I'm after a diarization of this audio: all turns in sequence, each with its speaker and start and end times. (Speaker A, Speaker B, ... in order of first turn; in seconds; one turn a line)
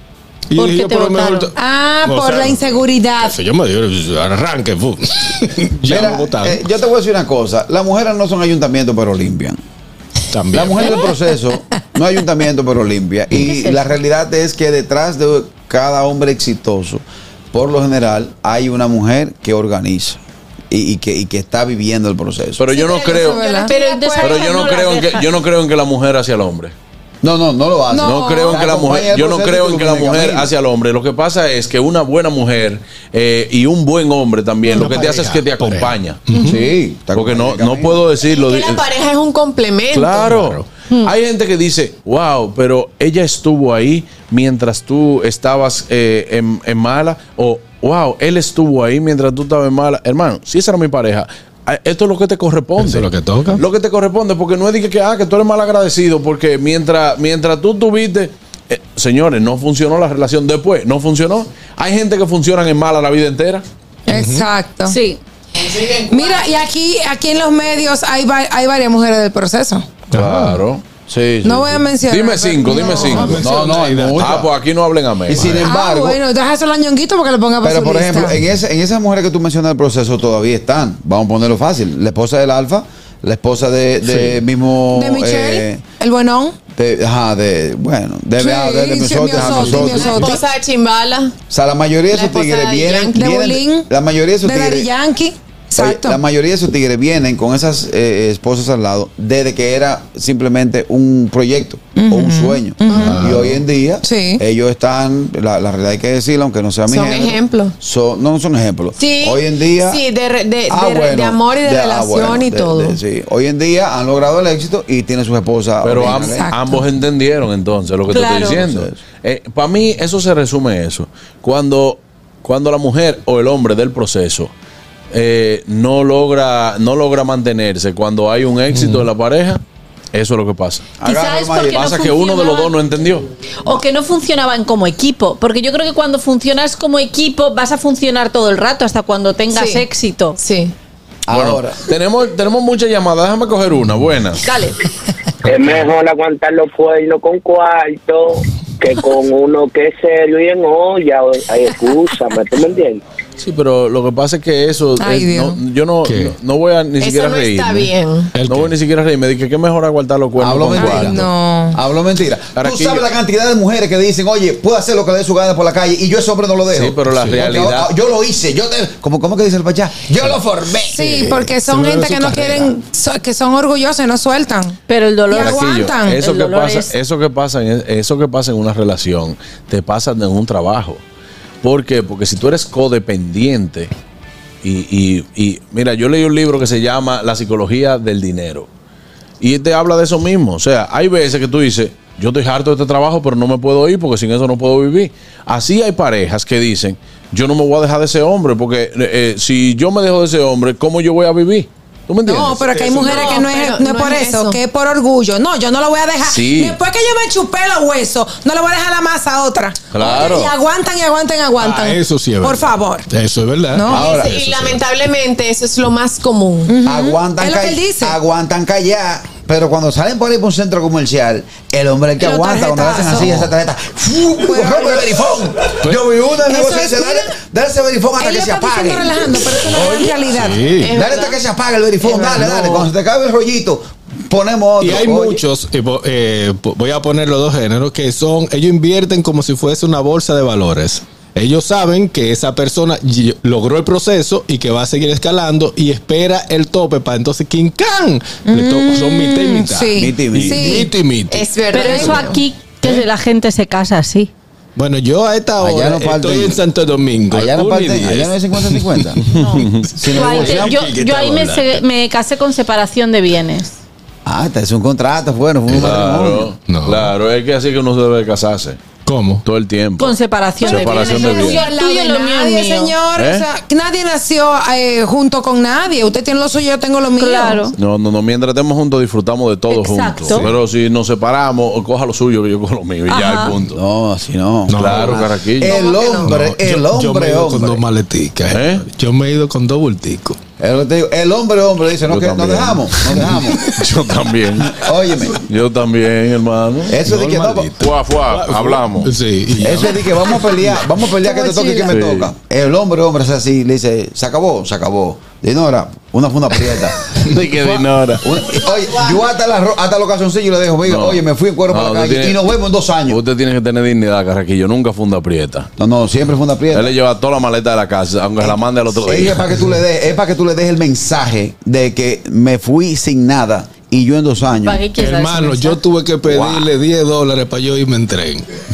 Speaker A: 0.5-6.6
Speaker B: 0.6-1.5
Speaker C: 1.5-3.4
Speaker D: 5.9-9.6
Speaker A: 10.3-10.9
Speaker D: 10.5-22.7
Speaker B: 13.4-13.9
Speaker E: 22.6-23.4
Speaker F: 22.8-24.5
Speaker C: 23.0-23.7
Speaker B: 23.6-25.3
Speaker E: 24.2-26.7
Speaker D: 27.2-30.5
Speaker C: 27.9-28.6
Speaker E: 28.0-36.4
Speaker A: 34.7-36.6
Speaker D: 36.4-38.0
Speaker E: 37.1-38.9
Speaker F: 38.2-40.3
Speaker E: 39.9-63.6
Speaker A: 40.2-40.6
Speaker A: 52.8-53.6
Speaker C: 64.1-65.0
Speaker A: 64.1-64.5
Speaker B: 64.8-65.2
Speaker C: 65.7-69.9
Speaker A: 70.1-70.6
Speaker E: 70.1-73.4
Speaker C: 71.4-73.6
Speaker A: 73.1-74.4
Speaker D: 73.4-74.5
Speaker E: 74.2-75.7
Speaker D: 75.3-76.2
Speaker A: 75.3-75.7
Speaker C: 75.6-78.4
Speaker D: 77.6-85.8
Speaker A: 84.0-84.4
Speaker C: 84.9-86.6
Speaker D: 86.8-90.2
Speaker C: 88.4-90.4
Speaker A: 89.4-90.3
Speaker F: 89.5-91.3
Speaker D: 91.5-94.9
Speaker F: 92.1-93.2
Speaker C: 93.1-93.9
Speaker C: 94.4-96.2
Speaker D: 95.8-110.0
Speaker C: 102.0-103.2
Speaker A: 103.0-103.6
Speaker C: 104.0-104.4
Speaker F: 106.9-107.8
Speaker F: 109.0-113.0
Speaker D: 110.7-116.5
Speaker E: 115.8-124.5
Speaker C: 116.0-116.8
Speaker B: 118.1-118.6
Speaker D: 118.1-119.0
Speaker E: 125.1-129.6
Speaker A: 128.7-129.1
Speaker E: 130.1-130.9
Speaker D: 131.0-132.2
Speaker B: 131.0-132.8
Speaker E: 131.7-133.3
Speaker B: 133.6-140.4
Speaker F: 139.5-139.8
Speaker F: 140.4-140.8
Speaker D: 141.2-141.8
Speaker E: 141.3-144.5
Speaker B: 144.5-144.7
Speaker G: 145.4-153.0
Speaker E: 153.4-157.9
Speaker C: 155.0-155.6
Speaker A: 156.0-156.4
Speaker F: 157.0-158.3
Speaker A: 158.3-158.7
Speaker E: 158.4-161.2
Speaker D: 160.4-171.3
Speaker C: 160.7-161.8
Speaker E: 162.6-163.1
Speaker E: 166.7-167.9
Speaker A: 167.1-167.6
Speaker C: 170.9-174.8
Speaker A: 170.9-172.8
Speaker B: 174.9-176.9
Speaker C: 175.3-176.3
Speaker E: 175.4-181.0
Speaker E: 181.6-183.9
Speaker E: 184.6-188.7
Speaker E: 189.4-203.2
Speaker C: 202.3-213.1
Speaker F: 202.3-204.6
Speaker A: 202.7-203.5
Speaker E: 206.2-206.8
Speaker E: 209.9-210.5
Speaker A: 211.6-214.8
Speaker C: 213.7-214.0
Speaker D: 213.9-214.4
Speaker F: 214.0-216.8
Speaker C: 216.7-218.2
Speaker D: 216.8-230.2
Speaker C: 222.2-223.3
Speaker C: 224.4-225.1
Speaker C: 226.5-227.3
Speaker C: 228.2-230.6
Speaker A: 230.3-231.0
Speaker F: 230.8-231.4
Speaker D: 230.9-235.4
Speaker C: 232.0-232.9
Speaker A: 234.8-252.3
Speaker C: 248.5-250.9
Speaker D: 249.9-250.8
Speaker F: 251.3-252.4
Speaker B: 251.7-254.3
Speaker C: 251.8-252.2
Speaker A: 254.8-261.8
Speaker D: 255.6-256.6
Speaker D: 257.3-259.2
Speaker B: 259.4-263.7
Speaker E: 259.4-259.9
Speaker D: 260.0-260.8
Speaker D: 264.2-266.5
Speaker E: 265.7-268.8
Speaker A: 266.7-267.1
Speaker A: 269.1-269.4
Speaker E: 269.4-271.7
Speaker B: 270.0-273.0
Speaker C: 270.6-277.7
Speaker E: 273.2-273.5
Speaker B: 277.2-277.7
Speaker E: 277.8-283.8
Speaker B: 279.7-280.5
Speaker B: 283.1-283.6
Speaker D: 283.6-287.8
Speaker A: 284.7-285.2
Speaker E: 284.7-285.8
Speaker F: 285.7-286.2
Speaker A: 286.2-290.4
Speaker E: 288.5-288.8
Speaker D: 290.6-293.6
Speaker E: 292.1-292.8
Speaker A: 293.0-293.6
Speaker E: 293.7-294.7
Speaker D: 294.7-295.4
Speaker E: 295.5-299.1
Speaker D: 296.9-297.7
Speaker A: 298.3-300.8
Speaker D: 299.6-307.0
Speaker C: 301.3-301.6
Speaker E: 301.9-302.3
Speaker E: 307.2-308.2
Speaker D: 308.2-313.2
Speaker E: 310.9-312.4
Speaker E: 313.1-315.7
Speaker D: 315.8-316.9
Speaker E: 316.7-319.4
Speaker D: 318.4-324.8
Speaker B: 324.6-325.8
Speaker A: 324.9-328.5
Speaker E: 326.3-326.7